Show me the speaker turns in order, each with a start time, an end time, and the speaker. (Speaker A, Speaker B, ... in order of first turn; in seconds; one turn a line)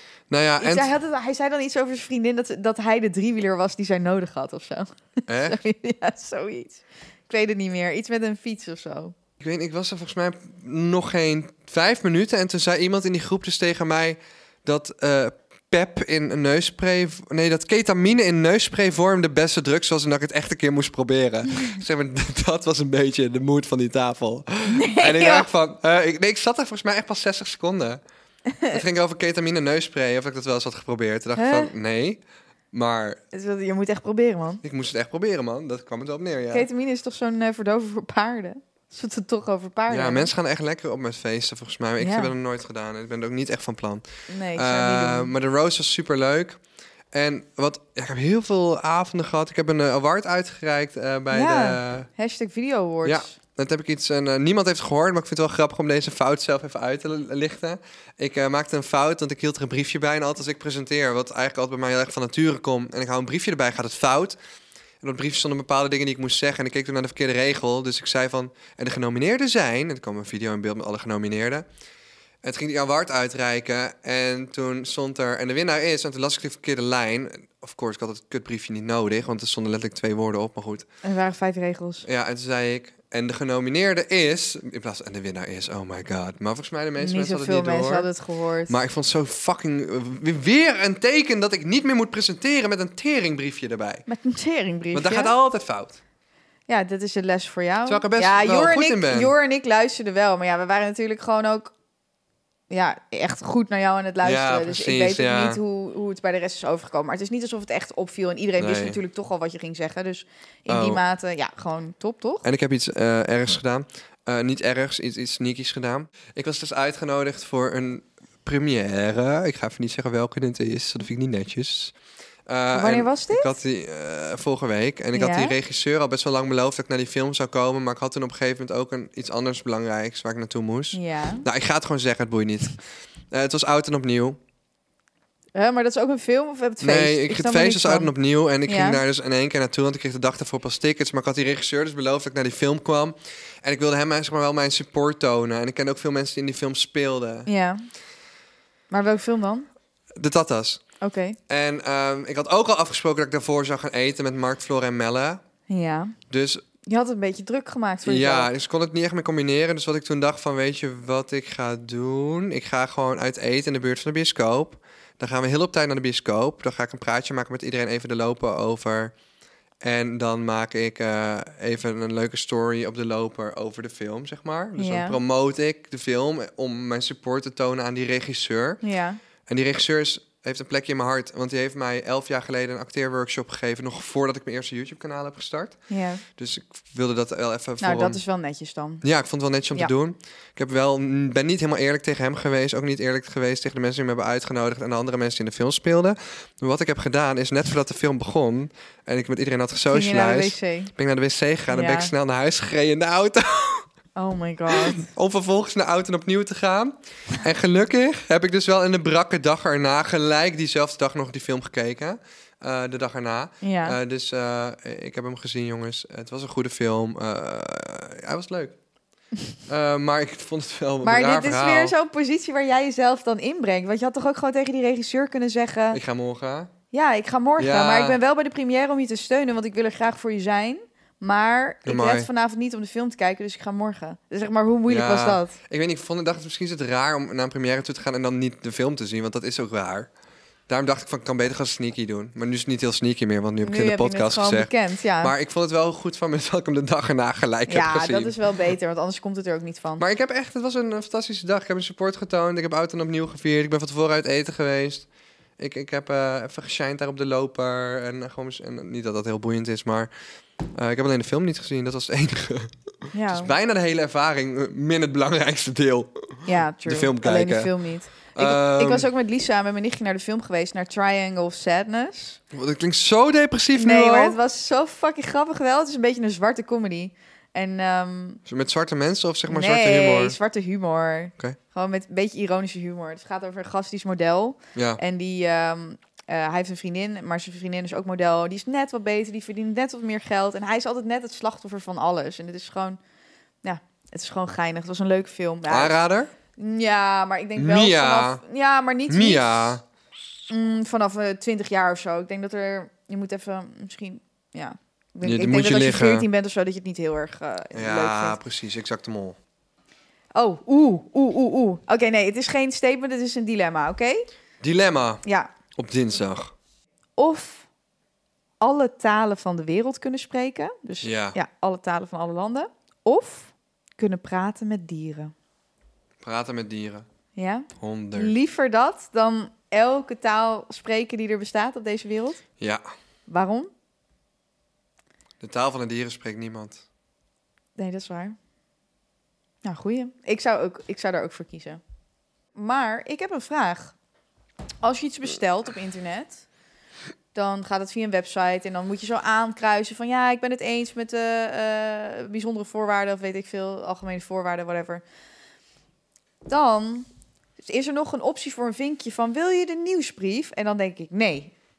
Speaker A: 0.3-0.9
Speaker B: 0.6-9.1
Speaker A: 5.3-5.6
Speaker A: 9.4-28.0
Speaker B: 24.7-25.5
Speaker B: 28.5-28.8
Speaker A: 28.7-32.2
Speaker B: 31.4-31.7
Speaker A: 32.7-33.2
Speaker B: 33.3-34.6
Speaker A: 34.6-36.7
Speaker B: 36.5-40.3
Speaker A: 39.9-44.0
Speaker B: 42.0-42.3
Speaker B: 44.3-45.3
Speaker A: 44.5-46.6
Speaker A: 47.1-52.1
Speaker B: 51.3-53.4
Speaker A: 53.0-64.4
Speaker A: 65.0-71.7
Speaker A: 72.4-80.8
Speaker B: 81.0-82.0
Speaker A: 82.0-88.1
Speaker B: 87.0-88.8
Speaker A: 88.7-94.0
Speaker B: 94.1-95.3
Speaker A: 94.9-96.0
Speaker B: 96.7-101.7
Speaker A: 97.9-99.3
Speaker B: 102.7-112.5
Speaker A: 104.2-105.6
Speaker A: 108.6-109.0
Speaker A: 110.7-111.0
Speaker A: 112.4-121.9
Speaker A: 122.5-132.8
Speaker B: 122.7-123.5
Speaker B: 125.1-125.5
Speaker B: 130.9-131.4
Speaker A: 133.3-134.4
Speaker B: 135.5-138.1
Speaker A: 136.8-147.5
Speaker B: 138.7-139.0
Speaker B: 147.5-147.8
Speaker B: 148.9-149.7
Speaker A: 150.1-150.8
Speaker B: 151.0-151.4
Speaker A: 151.5-155.4
Speaker B: 155.7-156.2
Speaker A: 156.3-156.6
Speaker B: 156.8-158.5
Speaker A: 158.1-169.1
Speaker A: 169.8-178.8
Speaker B: 174.8-175.2
Speaker B: 178.8-179.2
Speaker A: 179.5-185.8
Speaker B: 185.9-186.2
Speaker A: 186.3-188.2
Speaker B: 187.8-189.0
Speaker A: 189.0-203.8
Speaker B: 199.9-200.9
Speaker B: 201.7-202.1
Speaker B: 204.2-205.1
Speaker A: 204.7-218.8
Speaker B: 213.6-214.0
Speaker A: 219.7-221.9
Speaker B: 221.0-226.0
Speaker A: 225.9-226.7
Speaker B: 226.9-235.6
Speaker A: 227.6-228.2
Speaker A: 231.8-232.3
Speaker A: 234.9-240.1
Speaker A: 240.7-244.7
Speaker B: 243.6-245.3
Speaker A: 245.2-248.3
Speaker B: 247.7-250.0
Speaker A: 250.0-255.1
Speaker A: 255.6-260.1
Speaker A: 260.7-262.8
Speaker B: 263.1-263.5
Speaker A: 263.3-267.7
Speaker B: 266.4-272.4
Speaker A: 268.3-269.1
Speaker A: 272.5-274.4
Speaker B: 273.7-278.4
Speaker A: 278.4-280.4
Speaker B: 279.5-293.0
Speaker A: 284.7-285.0
Speaker B: 293.6-296.0
Speaker A: 295.7-296.3
Speaker B: 296.6-299.7
Speaker A: 297.6-298.4
Speaker A: 299.1-299.8
Speaker B: 300.5-308.4
Speaker A: 305.2-306.3
Speaker A: 307.7-309.4
Speaker B: 310.3-314.2
Speaker A: 314.6-315.2
Speaker B: 315.2-315.5
Speaker A: 315.7-316.5
Speaker B: 317.2-317.7
Speaker B: 318.6-325.3
Speaker A: 321.0-321.4
Speaker A: 326.2-327.1
Speaker B: 327.4-332.4
Speaker A: 327.7-328.3
Speaker B: 333.3-333.7
Speaker A: 335.4-336.8
Speaker B: 337.8-338.4
Speaker B: 339.6-341.8
Speaker B: 342.6-343.9
Speaker B: 344.8-346.4
Speaker B: 347.3-355.0
Speaker B: 356.4-357.1
Speaker B: 357.6-361.5